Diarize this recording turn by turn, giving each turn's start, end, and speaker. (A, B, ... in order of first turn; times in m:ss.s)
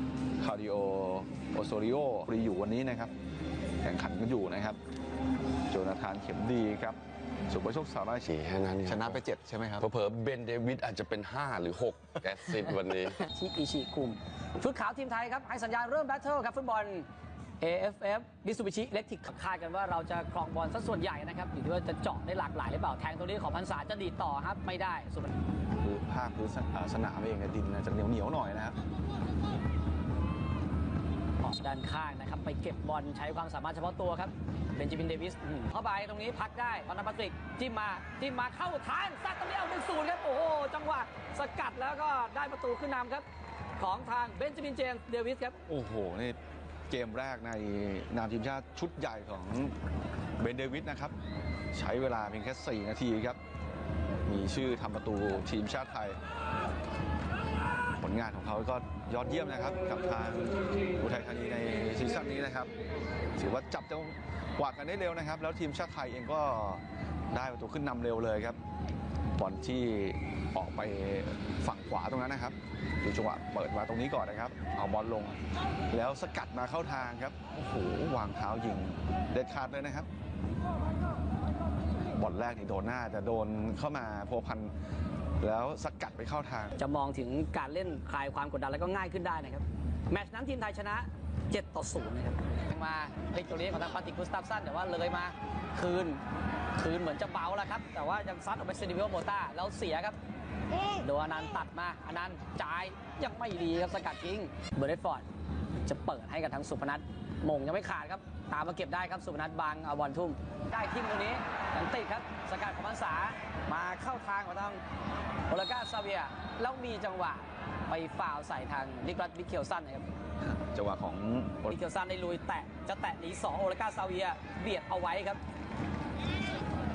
0:00.4-0:03.1 A
0:03.8-0:04.8 A
0:05.7-0:09.9 A
0:08.3-0:09.2 B
0:09.8-0:13.3 B
0:13.3-0:17.0 C
0:17.6-0:25.3 C
0:25.8-0:28.8 A
0:31.4-0:43.2 C
0:43.8-0:45.6 C
0:45.7-0:46.4 A
0:46.9-0:49.7 A
0:50.4-0:51.1 A
0:51.7-0:53.4 A
0:54.2-0:56.2 A
0:58.0-1:02.7 A
1:03.4-1:08.6 A
1:09.4-1:15.4 A
1:15.9-1:20.1 A
1:22.1-1:24.7 A
1:25.4-1:26.7 A
1:26.8-1:36.2 C
1:36.7-1:40.2 C
1:41.0-1:45.2 C
1:45.8-1:54.8 C
1:55.5-2:00.1 C
2:00.5-2:01.7 A
2:01.7-2:05.4 C